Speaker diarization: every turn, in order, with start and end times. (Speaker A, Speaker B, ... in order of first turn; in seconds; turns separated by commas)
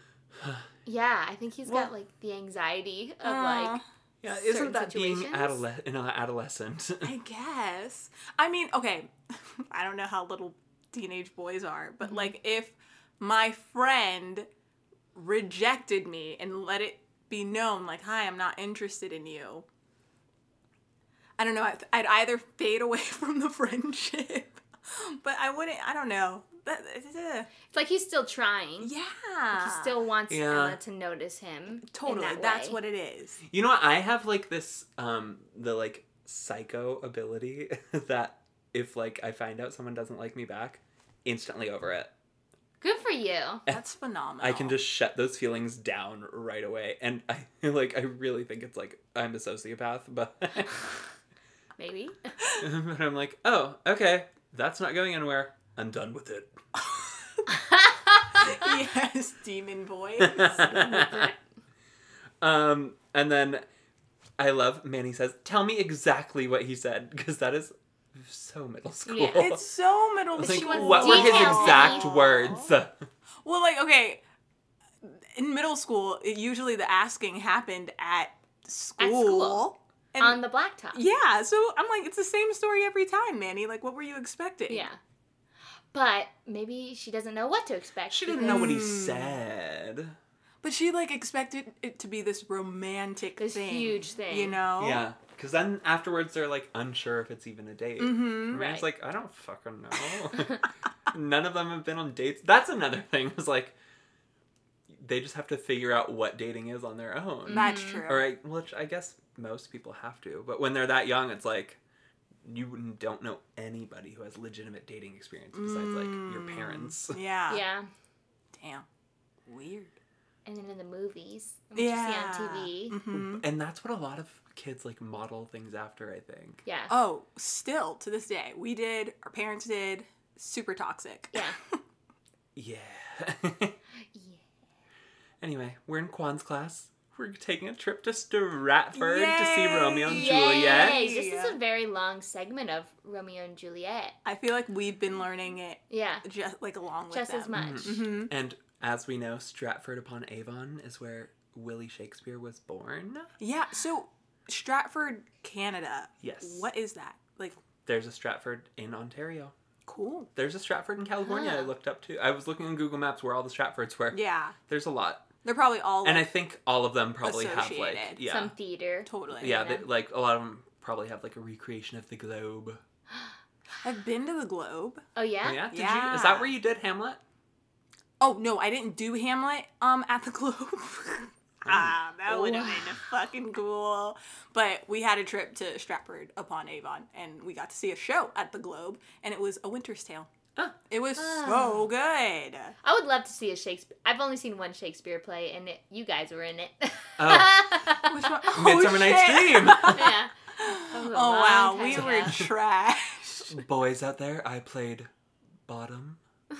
Speaker A: 0.8-5.6, Speaker B: 1.7-1.9, Speaker C: 3.2-3.8, Speaker B: 4.2-7.1, Speaker C: 7.0-14.5, Speaker C: 15.2-19.6, Speaker C: 21.4-27.5, Speaker A: 27.7-28.9, Speaker C: 28.8-30.0, Speaker A: 29.5-32.8, Speaker B: 30.3-30.8, Speaker C: 31.8-33.4, Speaker B: 33.5-42.1, Speaker A: 42.8-43.6, Speaker C: 43.7-44.8, Speaker B: 44.4-50.9, Speaker A: 51.8-52.3, Speaker B: 52.6-57.0, Speaker A: 57.5-58.7, Speaker C: 58.4-61.0, Speaker B: 60.2-61.3, Speaker A: 60.5-61.4, Speaker B: 62.4-63.6, Speaker B: 64.4-69.6, Speaker A: 69.1-69.6, Speaker C: 69.3-72.7, Speaker B: 70.4-73.0, Speaker A: 70.4-72.1, Speaker C: 73.4-74.2, Speaker C: 75.0-84.9, Speaker A: 79.0-81.0, Speaker A: 84.7-85.0, Speaker A: 85.9-88.8, Speaker B: 88.1-90.2, Speaker C: 88.4-89.3, Speaker C: 90.6-95.0, Speaker A: 93.4-94.6, Speaker B: 94.8-103.8, Speaker C: 98.0-98.7, Speaker A: 98.5-98.9, Speaker B: 104.9-111.8, Speaker A: 107.5-108.1, Speaker C: 107.5-108.2, Speaker B: 112.4-117.2, Speaker C: 115.5-117.6, Speaker A: 117.5-117.9, Speaker C: 118.5-118.9, Speaker C: 119.5-119.9, Speaker A: 120.5-123.0, Speaker C: 121.8-123.4, Speaker B: 123.1-126.6, Speaker A: 126.7-126.9, Speaker C: 126.9-131.8, Speaker B: 132.6-133.8, Speaker A: 134.1-134.4, Speaker B: 135.4-141.0, Speaker C: 138.9-141.6, Speaker A: 140.1-144.2, Speaker C: 144.2-148.3, Speaker A: 145.9-146.2, Speaker A: 147.1-148.0, Speaker B: 147.6-153.3, Speaker C: 153.4-157.6, Speaker B: 156.2-156.7, Speaker B: 157.9-159.6, Speaker C: 159.9-160.3, Speaker B: 160.3-165.3, Speaker A: 161.2-161.7, Speaker C: 164.1-164.6, Speaker C: 165.4-166.3, Speaker B: 166.0-168.5, Speaker C: 167.2-168.2, Speaker A: 168.2-169.8, Speaker C: 169.1-169.8, Speaker B: 169.4-172.8, Speaker C: 173.8-175.0, Speaker A: 175.2-175.7, Speaker B: 175.4-177.2, Speaker C: 175.7-176.5, Speaker C: 178.2-190.3, Speaker B: 181.7-182.9, Speaker C: 190.9-192.8, Speaker A: 191.2-191.9, Speaker A: 192.8-198.3, Speaker B: 197.2-197.8, Speaker C: 198.1-203.6, Speaker B: 198.5-200.2, Speaker A: 199.8-202.4, Speaker B: 201.9-202.5, Speaker B: 203.5-205.1, Speaker B: 205.7-206.2